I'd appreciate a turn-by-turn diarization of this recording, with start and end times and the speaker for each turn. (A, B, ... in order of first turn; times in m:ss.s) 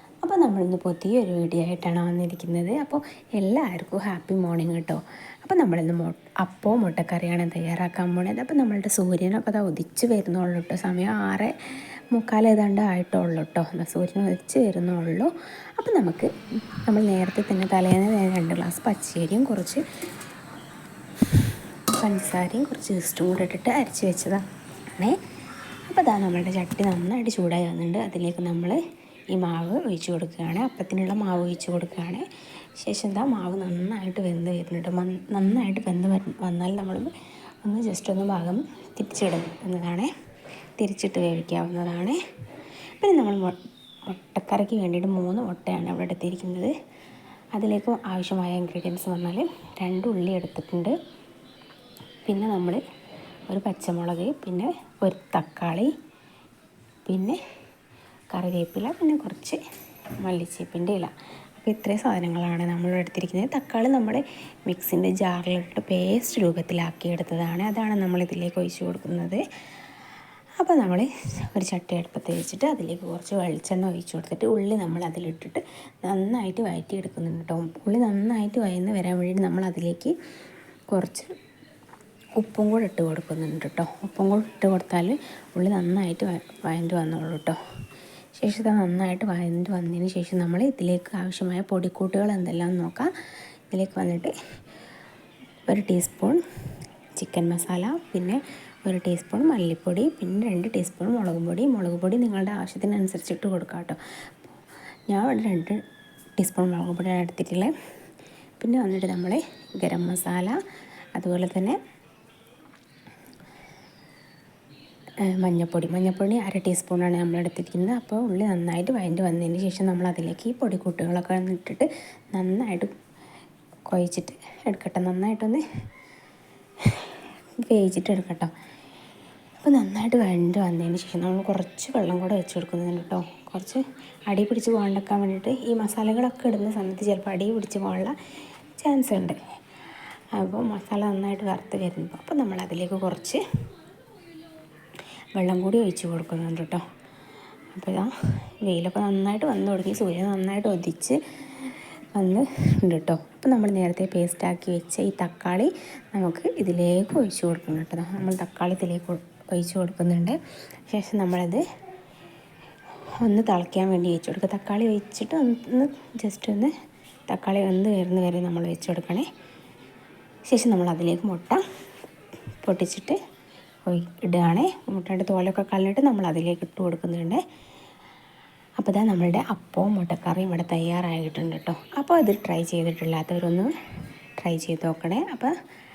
0:00.2-0:11.5 A
0:12.1-0:16.3 A
0:16.9-0:19.8 A
0:21.4-0:25.2 A
0:25.9-0:28.8 A
0:29.3-0:32.2 A
0:32.8-0:37.1 A
0:37.6-0:40.1 A
0:40.8-0:42.2 A
0:43.0-0:46.7 A
0:47.6-0:50.9 A
0:52.2-0:52.8 A
0:53.5-0:55.9 A
0:57.1-0:57.4 A
0:58.3-0:59.6 A
1:00.2-1:09.4 A
1:10.6-1:20.1 A
1:20.9-1:21.3 A
1:22.4-1:27.6 A
1:28.4-1:33.1 A
1:33.7-1:34.3 A
1:35.7-1:36.4 A
1:37.2-1:44.5 A
1:45.1-1:45.8 A
1:46.4-1:47.7 A
1:48.6-1:50.6 A
1:51.2-1:51.8 A
1:55.3-2:02.9 A
2:03.9-2:05.6 A
2:06.9-2:08.5 A
2:09.6-2:18.2 A
2:18.8-2:19.4 A
2:20.4-2:23.4 A
2:25.3-2:26.8 A
2:27.7-2:40.4 A
2:40.9-2:41.6 A
2:43.2-2:46.7 A
2:47.3-2:49.3 A
2:50.5-2:51.6 A
2:52.6-2:53.2 A
2:53.9-2:57.4 A
2:58.8-3:03.7 A
3:04.4-3:05.5 A